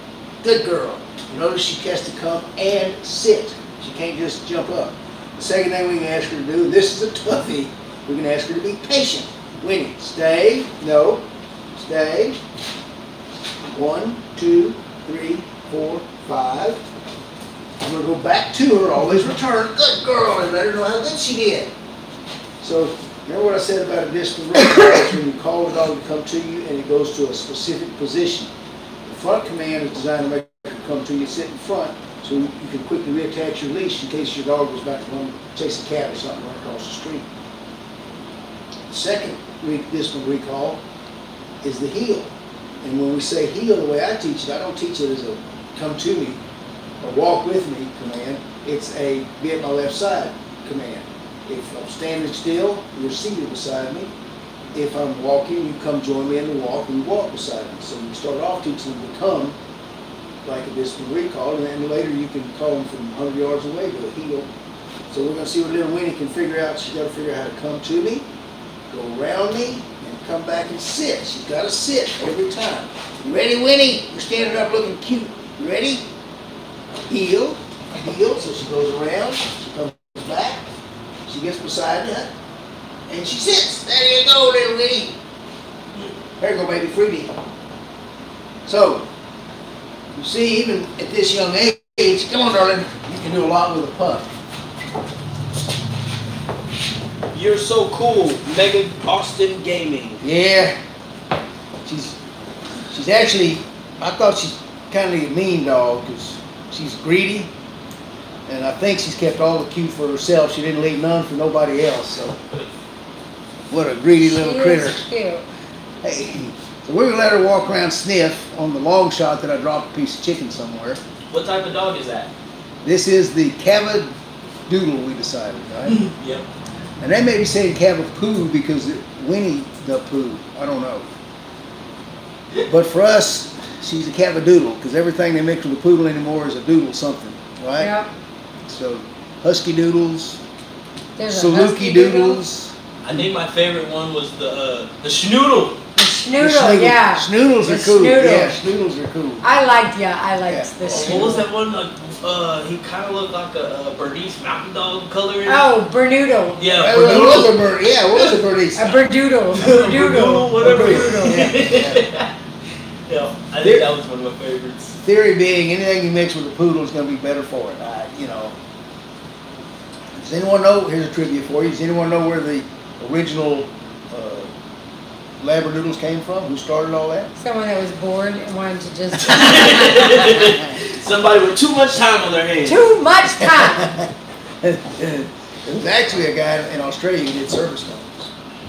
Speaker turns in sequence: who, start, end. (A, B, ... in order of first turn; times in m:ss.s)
0:00.4-0:12.4 A
0:13.6-0:16.8 A
0:17.8-0:21.7 A
0:22.6-0:28.5 A
0:29.0-0:37.3 A
0:38.9-0:40.8 A
0:41.6-0:46.4 A
0:47.0-0:54.1 A
0:54.7-0:59.6 A
1:00.4-1:04.5 A
1:05.1-1:08.3 A
1:08.9-1:16.1 A
1:17.1-1:20.7 A
1:21.2-1:22.3 A
1:23.1-1:25.2 A
1:26.4-1:27.3 A
1:28.6-1:29.1 A
1:30.1-1:34.3 A
1:37.3-1:40.2 B
1:40.2-1:40.8 A
1:41.8-1:42.2 A
1:42.9-1:47.5 A
1:48.4-1:52.4 A
1:53.7-1:55.0 A
1:54.2-1:55.4 C
1:56.0-2:01.0 A
2:01.3-2:02.3 B
2:02.8-2:04.1 A
2:04.7-2:06.0 A
2:06.0-2:06.5 B
2:07.0-2:11.1 A
2:12.6-2:17.9 A
2:17.8-2:18.1 C
2:18.6-2:20.4 A
2:21.2-2:22.4 C
2:21.3-2:23.2 A
2:23.0-2:25.8 B
2:26.0-2:28.6 C
2:26.4-2:29.4 A
2:29.4-2:31.4 C
2:30.5-2:31.4 A
2:30.9-2:35.7 B
2:35.4-2:36.7 C
2:36.6-2:37.6 B
2:36.8-2:39.1 A
2:38.8-2:41.4 C
2:39.5-2:42.3 B
2:40.6-2:42.0 A
2:43.1-2:45.0 B
2:43.6-2:43.9 A
2:45.0-2:48.6 A
2:50.1-2:54.5 A
2:55.4-2:57.3 A
2:57.4-3:00.5 C
2:59.2-3:02.8 B
3:02.6-3:03.9 C
3:03.4-3:04.1 A
3:04.6-3:08.3 A